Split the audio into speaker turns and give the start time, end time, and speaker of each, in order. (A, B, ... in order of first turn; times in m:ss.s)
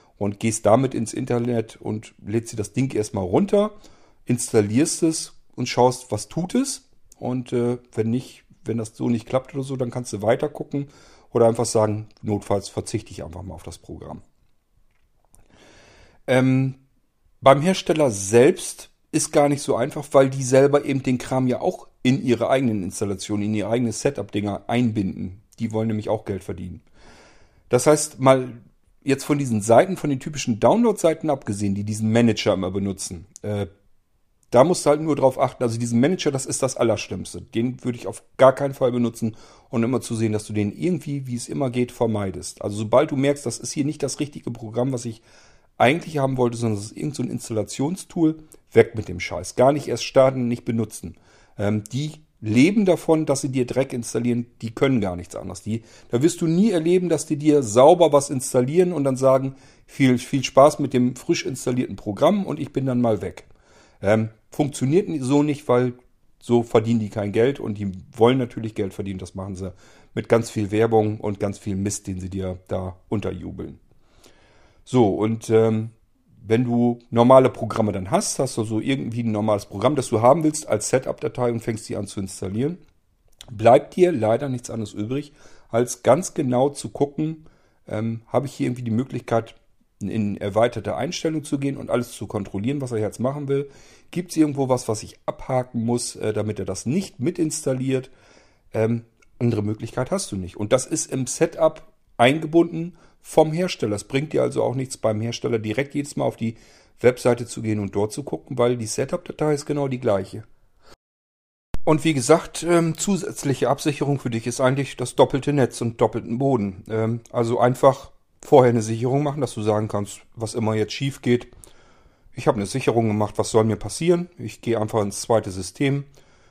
0:00.2-0:03.7 A
0:04.3-0:14.2 A
0:16.3-0:16.8 A
0:17.4-0:26.8 A
0:27.7-0:33.7 A
0:34.5-0:45.2 A
0:45.8-1:03.5 A
1:04.0-1:13.8 A
1:14.8-1:22.8 A
1:23.5-1:38.1 A
1:38.7-1:50.4 A
1:51.8-2:01.5 A
2:02.3-2:06.1 A